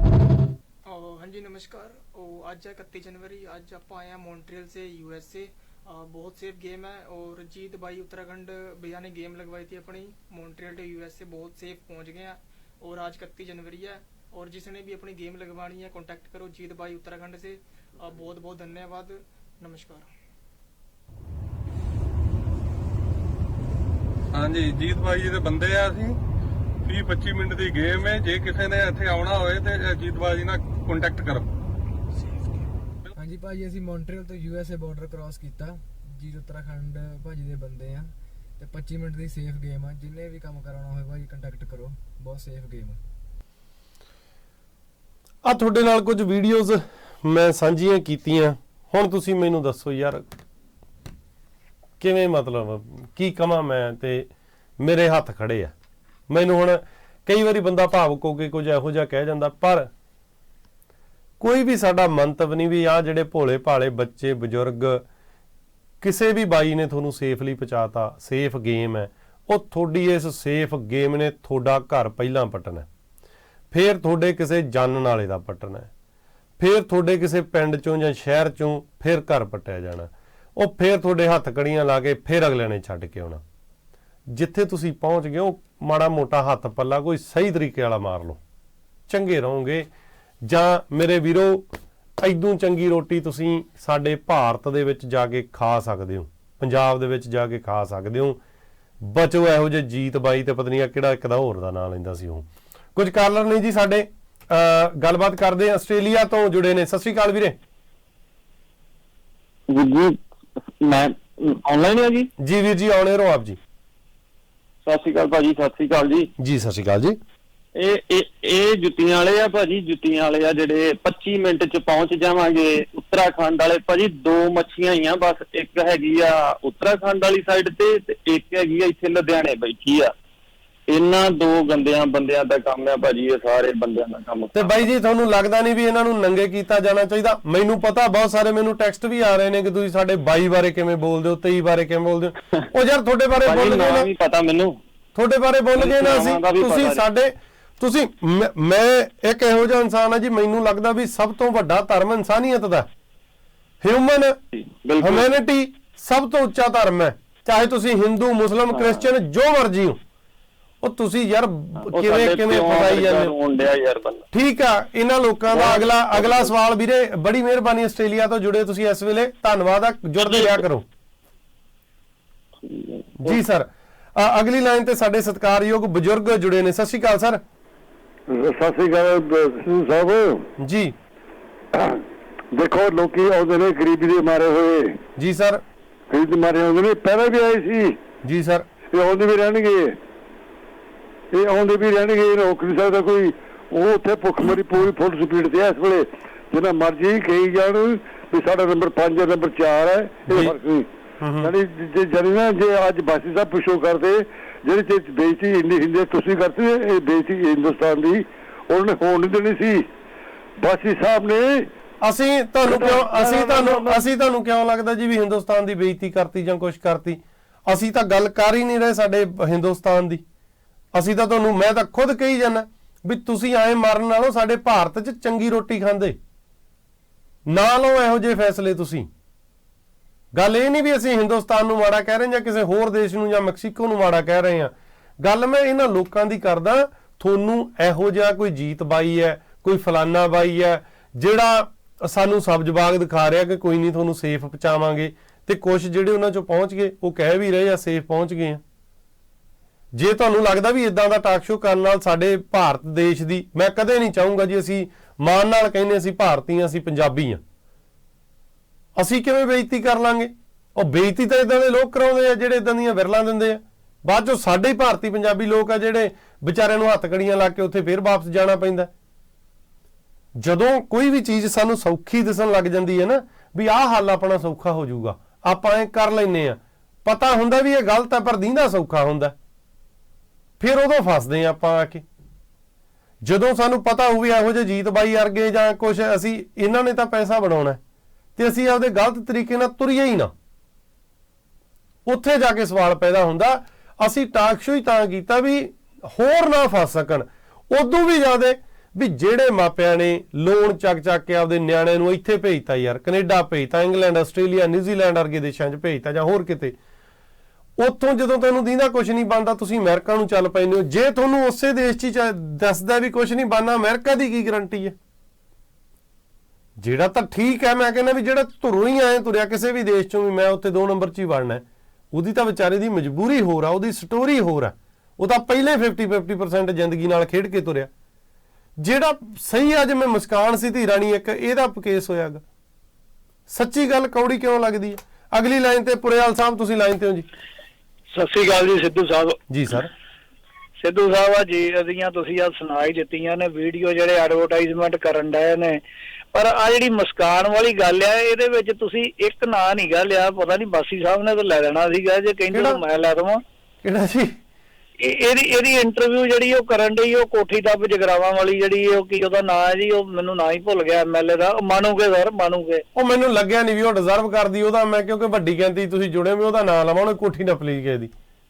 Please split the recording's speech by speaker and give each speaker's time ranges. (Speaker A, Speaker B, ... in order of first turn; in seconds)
Speaker A: 0.9-20.1
Speaker B: 24.4-26.1, 26.9-31.4
Speaker C: 33.2-43.0
Speaker D: 45.5-50.2, 52.0-55.7, 56.3-59.9, 61.4-65.0, 66.0-72.9, 73.7-75.9, 76.6-83.4, 84.3-88.4, 89.1-89.9, 90.4-91.7, 92.2-98.4, 99.0-107.6, 112.4-113.6, 116.4-117.2, 134.5-144.1, 145.2-152.9, 153.8-154.4, 155.0-160.0, 160.8-163.3, 164.3-170.8, 173.2-177.4, 180.6-180.9, 185.2-185.6, 188.2-188.7, 200.3-200.6, 201.2-201.5, 212.0-220.2, 220.9-226.2, 227.5-229.1, 230.3-248.6, 249.9-257.4, 259.0-268.9, 270.4-279.4, 280.6-282.0, 283.2-287.8, 288.4-290.3, 292.1-306.8, 307.8-314.9, 316.8-327.9, 328.8-332.4, 333.5-337.3, 339.5-339.9, 352.5-352.8, 353.8-354.4, 362.9-368.1
Speaker E: 109.7-110.2, 110.8-112.3, 114.8-116.3, 117.8-130.1, 130.9-134.8, 143.4-144.8, 145.8-147.0, 154.5-155.3, 158.7-159.1, 161.8-164.2, 165.5-166.5, 170.2-170.6, 172.7-173.4
Speaker F: 178.3-180.5, 181.8-182.0, 182.5-185.0, 186.1-188.0, 188.9-190.0, 191.3-200.9, 201.4-209.9, 210.6-211.7, 212.8-213.8
Speaker G: 338.1-339.4, 340.8-345.8, 346.3-353.4, 355.0-362.8